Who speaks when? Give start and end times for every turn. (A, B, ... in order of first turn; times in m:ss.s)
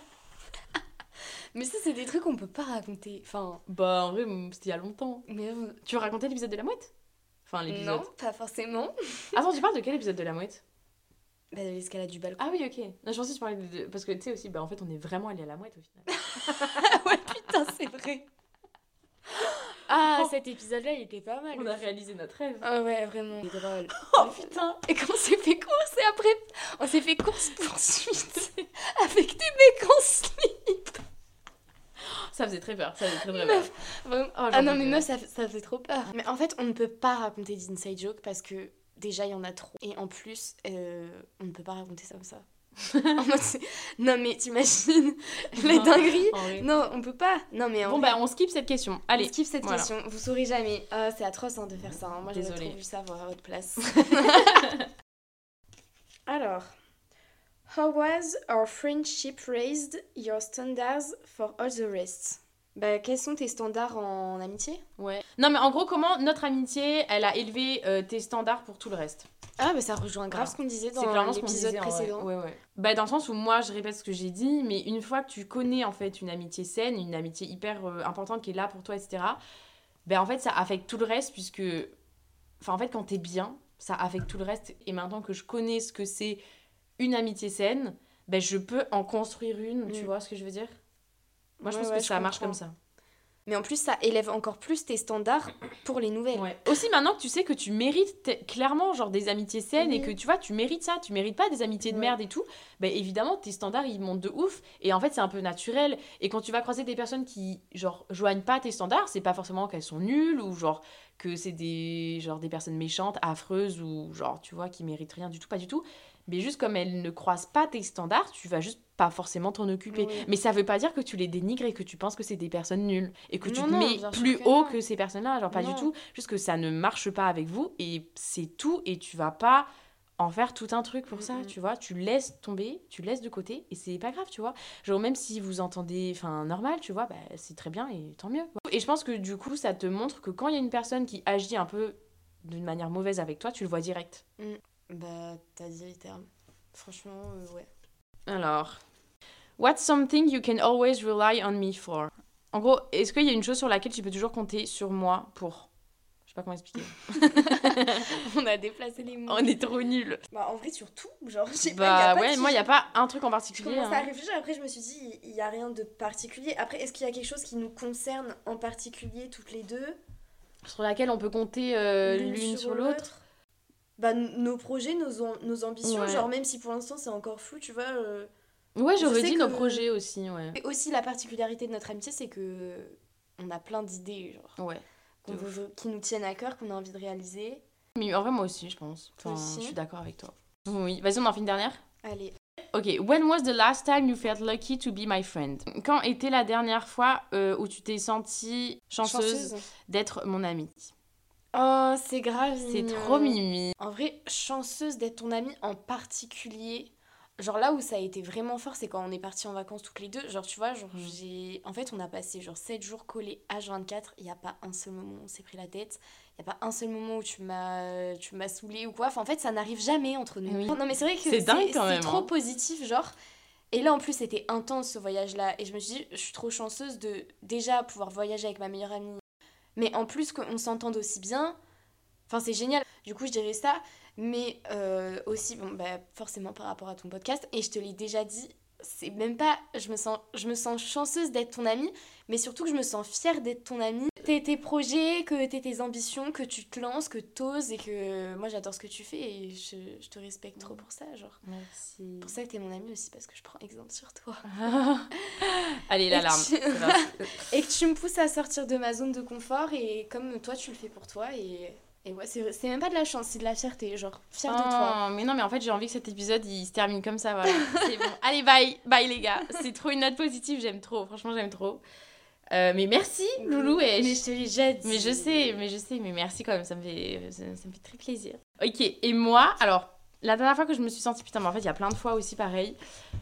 0:01.5-0:03.6 A
0:03.7-0:05.2 B
0:05.3-0:05.8 A
0:05.8-0:06.9 B
0:07.5-0:08.1 B
0:07.7-0:09.4 A
0:09.3-0:10.6 B
0:11.5-0:12.4 A
0:12.4-0:17.0 B
0:16.2-0:18.2 A
0:19.9-0:21.8 A
0:19.9-0:20.3 B
0:21.5-0:22.6 B
0:22.6-0:31.0 A
0:24.0-0:24.8 B
0:32.1-0:33.7 B
0:33.2-0:42.4 A
0:34.3-0:35.0 B
0:42.9-0:43.2 B
0:43.1-0:48.2 A
0:45.6-0:46.7 B
0:47.8-0:49.9 B
0:49.1-0:54.7 A
0:52.3-0:52.8 B
0:53.9-0:54.8 B
0:56.3-0:56.7 A
0:57.7-1:04.8 A
1:05.0-1:09.3 B
1:09.6-1:12.3 A
1:10.3-1:19.4 B
1:20.0-1:21.9 B
1:22.6-1:26.4 B
1:27.0-1:30.7 B
1:31.6-1:32.6 A
1:31.6-1:32.7 B
1:33.5-1:36.5 A
1:36.3-2:09.7 B
1:39.8-1:40.1 A
1:41.8-1:42.1 A
1:59.9-2:00.3 A
2:03.4-2:04.8 A
2:05.5-2:05.9 A
2:10.2-2:24.2 B
2:11.1-2:11.5 A
2:24.4-2:27.7 A
2:28.3-2:28.8 B
2:29.6-2:35.7 B
2:36.3-2:38.2 B
2:37.4-2:39.5 A
2:39.3-2:40.2 B
2:40.3-2:42.7 A
2:41.6-2:44.1 B
2:43.5-2:50.0 A
2:50.6-2:53.1 B
2:52.0-2:53.2 A
2:54.0-2:58.3 A
2:55.8-2:56.2 B
2:58.8-3:00.6 B
2:59.0-2:59.8 A
3:00.6-3:04.6 A
3:04.6-3:05.5 B
3:05.2-3:07.6 A
3:08.0-3:11.8 B
3:09.2-3:09.8 A
3:12.0-3:12.3 A
3:12.7-3:20.9 B
3:19.0-3:19.6 A
3:21.5-3:43.1 A
3:22.6-3:23.7 B
3:40.5-3:42.3 B
3:43.7-3:49.2 A
3:49.8-3:51.6 A
3:52.3-4:11.4 A
4:11.4-4:12.3 B
4:12.2-4:14.4 A
4:14.5-4:17.4 B
4:16.1-4:25.0 A
4:24.5-4:31.8 B
4:32.5-4:34.2 B
4:33.4-4:35.5 A
4:34.8-4:42.8 B